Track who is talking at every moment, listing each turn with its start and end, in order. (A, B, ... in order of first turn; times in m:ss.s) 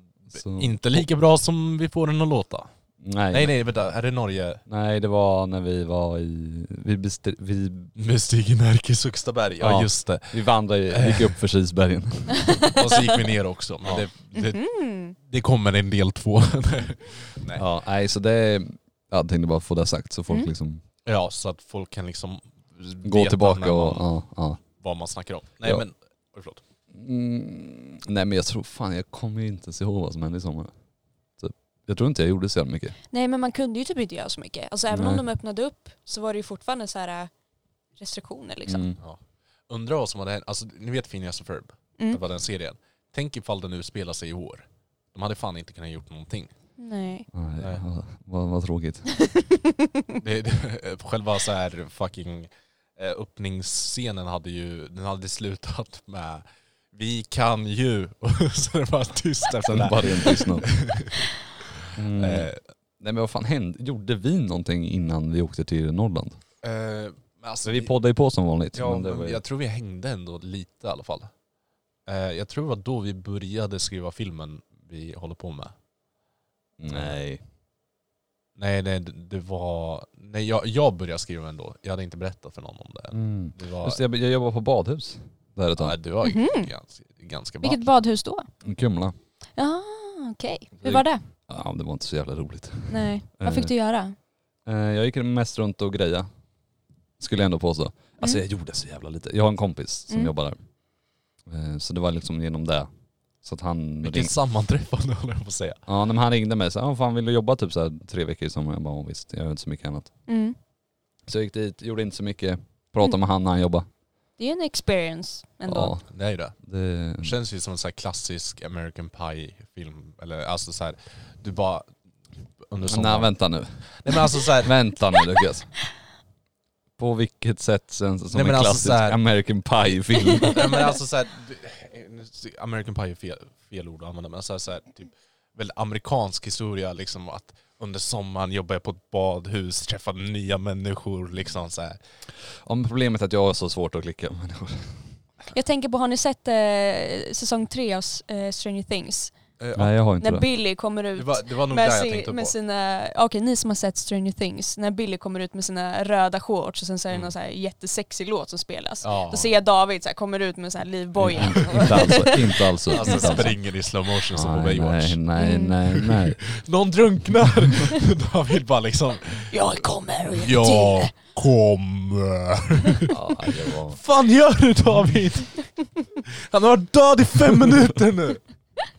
0:00.3-0:02.7 A
0:00.3-0:01.0 B
0:03.0-0:03.5 B
0:03.3-0:04.6 A
0:04.7-0:07.9 B
0:08.0-0:11.4 A
0:09.6-0:12.6 B
0:12.7-0:17.6 A
0:14.3-0:15.2 C
0:17.6-0:20.8 B
0:21.0-0:24.1 A
0:23.0-0:24.6 B
0:24.8-0:26.6 A
0:26.9-0:30.7 B
0:31.4-0:33.0 B
0:33.1-0:37.3 C
0:34.9-0:35.2 B
0:38.0-0:38.9 C
0:38.7-0:39.0 B
0:39.0-0:46.5 A
0:46.8-0:47.3 C
0:47.3-0:49.1 B
0:49.2-0:50.2 C
0:50.2-1:01.3 A
0:59.7-1:00.7 B
1:02.0-1:06.4 B
1:02.2-1:02.6 A
1:06.6-1:07.9 A
1:07.6-1:09.4 B
1:08.7-1:11.3 A
1:12.0-1:15.7 A
1:16.8-1:17.4 B
1:18.6-1:24.0 A
1:23.1-1:26.0 B
1:25.8-1:27.8 A
1:26.2-1:26.7 C
1:27.6-1:28.5 C
1:28.6-1:29.1 B
1:29.6-1:31.2 C
1:30.8-1:33.7 B
1:32.9-1:34.1 C
1:34.6-1:36.3 B
1:37.2-1:40.6 B
1:41.4-1:42.9 B
1:43.4-1:44.3 B
1:44.0-1:45.8 A
1:45.9-1:50.1 B
1:50.3-1:50.6 C
1:51.3-1:53.8 B
1:54.4-1:55.9 C
1:55.7-1:56.0 B
1:56.1-1:56.6 A
1:56.6-1:57.3 B
1:57.2-2:01.9 A
2:02.7-2:03.3 A
2:02.9-2:05.7 B
2:04.0-2:04.7 A
2:07.0-2:10.8 B
2:08.3-2:09.2 A
2:10.5-2:22.0 A
2:22.6-2:25.0 B
2:25.5-2:29.4 C
2:29.6-2:29.9 A
2:29.8-2:30.4 B
2:30.2-2:43.5 C
2:31.2-2:32.5 A
2:39.0-2:39.5 A
2:41.2-2:43.5 B
2:41.4-2:42.0 A
2:42.9-2:45.2 A
2:44.3-2:46.4 B
2:45.4-2:45.8 C
2:45.8-2:49.5 A
2:49.5-2:51.1 C
2:50.3-2:58.4 A
2:53.1-2:54.0 B